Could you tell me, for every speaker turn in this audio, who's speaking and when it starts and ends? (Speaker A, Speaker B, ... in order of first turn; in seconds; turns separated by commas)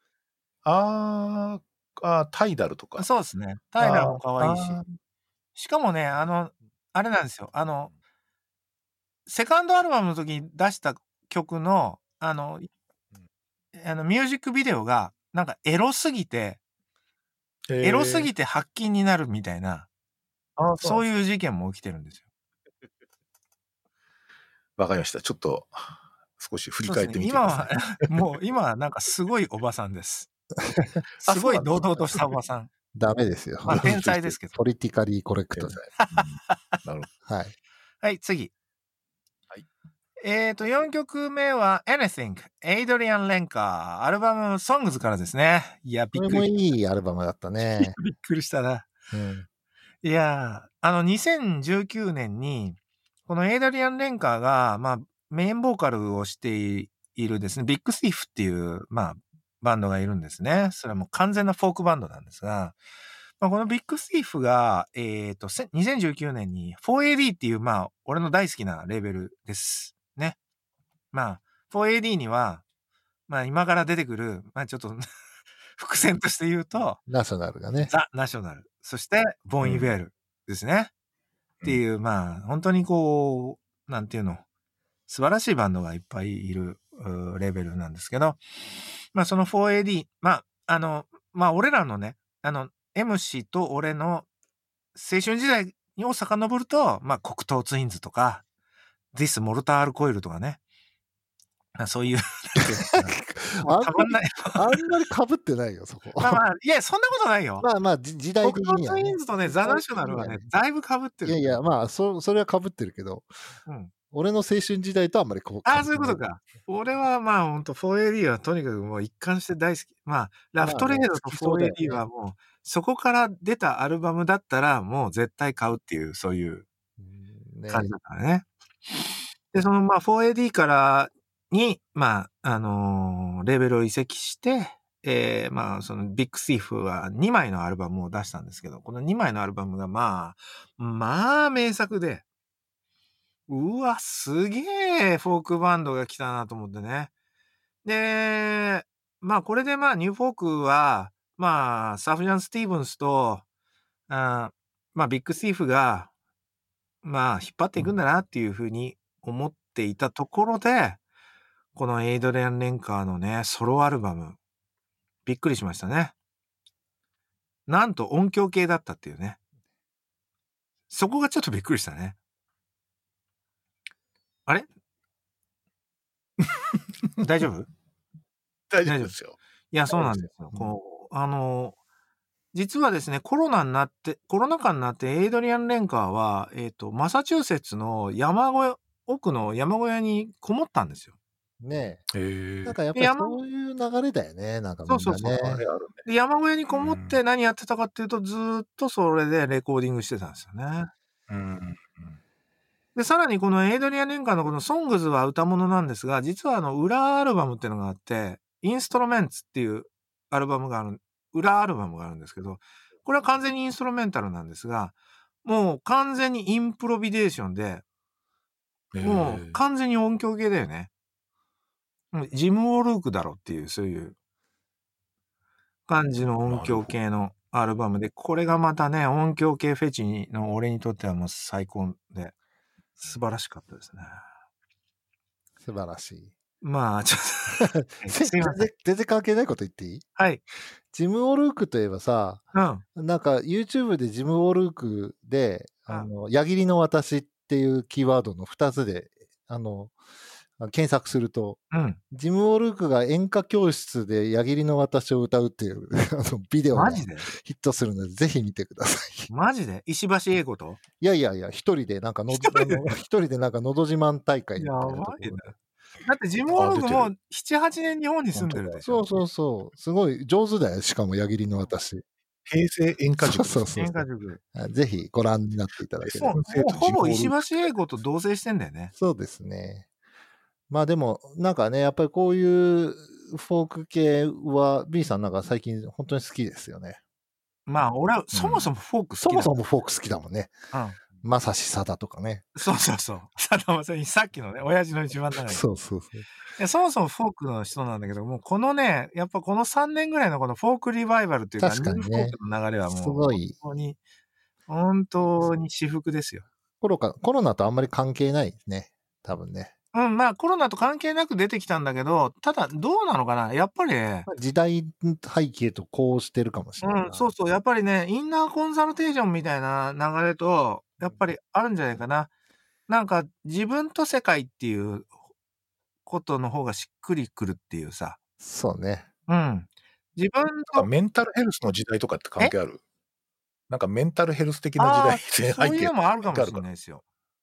Speaker A: 0.7-3.1, Speaker B: 3.0-4.8, Speaker A: 3.8-5.0, Speaker B: 5.6-7.9, Speaker B: 9.3-12.7, Speaker B: 13.8-16.6, Speaker A: 17.7-18.3, Speaker B: 17.8-19.9, Speaker A: 20.6-21.0, Speaker B: 20.8-22.2, Speaker A: 24.8-27.9, Speaker B: 26.8-30.3, Speaker B: 31.2-32.7, Speaker A: 31.2-32.3, Speaker C: 32.9-35.9, Speaker B: 33.7-34.5, Speaker A: 35.5-37.1, Speaker B: 36.0-36.8, Speaker C: 37.3-37.5, Speaker B: 38.0-38.5, Speaker B: 40.2-46.5, Speaker C: 46.1-48.0, Speaker B: 47.6-48.9, Speaker C: 49.1-49.5, Speaker B: 50.0-62.8, Speaker B: 63.4-70.4, Speaker B: 71.1-72.6, Speaker B: 73.3-75.1, Speaker B: 75.8-77.0, Speaker C: 77.1-77.9, Speaker B: 77.9-80.9, Speaker A: 79.6-79.9, Speaker B: 81.7-84.4, Speaker B: 85.1-88.4, Speaker B: 89.1-94.3, Speaker B: 95.0-98.5, Speaker B: 99.1-100.6, Speaker B: 101.8-104.9, Speaker C: 102.9-106.4, Speaker B: 106.2-107.7, Speaker C: 107.6-110.5, Speaker B: 108.4-111.6, Speaker C: 111.2-113.3, Speaker B: 113.7-113.9, Speaker C: 114.1-116.2, Speaker B: 115.7-126.7, Speaker C: 120.6-122.0, Speaker C: 127.0-127.9, Speaker B: 127.7-142.2, Speaker B: 143.5-147.1, Speaker B: 147.8-153.4, Speaker B: 154.1-156.1, Speaker B: 157.0-161.0, Speaker B: 161.8-164.4, Speaker B: 165.3-166.1, Speaker B: 167.7-169.4, Speaker B: 170.9-172.2, Speaker B: 177.2-177.7, Speaker A: 178.7-179.4, Speaker B: 178.8-179.1, Speaker B: 179.7-181.8, Speaker A: 179.9-180.7, Speaker B: 182.5-191.1, Speaker C: 191.6-192.0, Speaker A: 192.1-192.8, Speaker C: 192.7-195.6, Speaker B: 192.9-193.4, Speaker B: 194.9-195.4, Speaker A: 195.4-196.1, Speaker B: 196.1-200.9, Speaker A: 196.7-197.2, Speaker A: 201.3-202.2, Speaker B: 202.9-217.8, Speaker A: 218.9-219.6, Speaker B: 219.0-220.9, Speaker B: 222.1-224.2, Speaker B: 225.9-232.3, Speaker A: 226.5-226.9, Speaker B: 233.0-234.2, Speaker C: 235.6-236.3, Speaker B: 236.6-238.7, Speaker C: 237.6-240.1, Speaker B: 240.2-240.4, Speaker C: 240.9-242.4, Speaker B: 242.5-242.8, Speaker C: 242.9-249.9, Speaker C: 250.6-259.3, Speaker B: 251.7-252.0, Speaker B: 256.7-257.3, Speaker B: 259.3-260.8, Speaker C: 261.0-265.5, Speaker B: 262.3-262.9, Speaker B: 264.6-265.5, Speaker B: 266.1-269.0, Speaker A: 266.5-267.1, Speaker A: 268.4-268.8, Speaker C: 268.8-272.0, Speaker A: 272.5-273.8, Speaker C: 273.2-274.0, Speaker B: 273.8-274.4, Speaker C: 274.6-276.4, Speaker A: 276.0-277.7, Speaker B: 276.2-278.9, Speaker C: 279.0-279.9, Speaker C: 280.7-287.0, Speaker B: 287.7-289.5, Speaker A: 288.3-288.7, Speaker C: 289.2-290.6, Speaker B: 290.7-291.0, Speaker C: 291.2-292.5, Speaker B: 292.6-295.6, Speaker C: 295.5-296.3, Speaker B: 296.6-304.0, Speaker C: 301.6-302.4, Speaker C: 302.9-303.6, Speaker B: 304.7-306.5, Speaker C: 306.8-309.7, Speaker B: 309.9-314.3, Speaker C: 314.3-317.3, Speaker B: 316.8-322.3, Speaker B: 322.9-325.1, Speaker B: 326.1-328.2, Speaker C: 328.4-329.1, Speaker B: 329.3-330.9, Speaker A: 330.7-332.8, Speaker A: 333.7-336.6, Speaker B: 334.8-337.0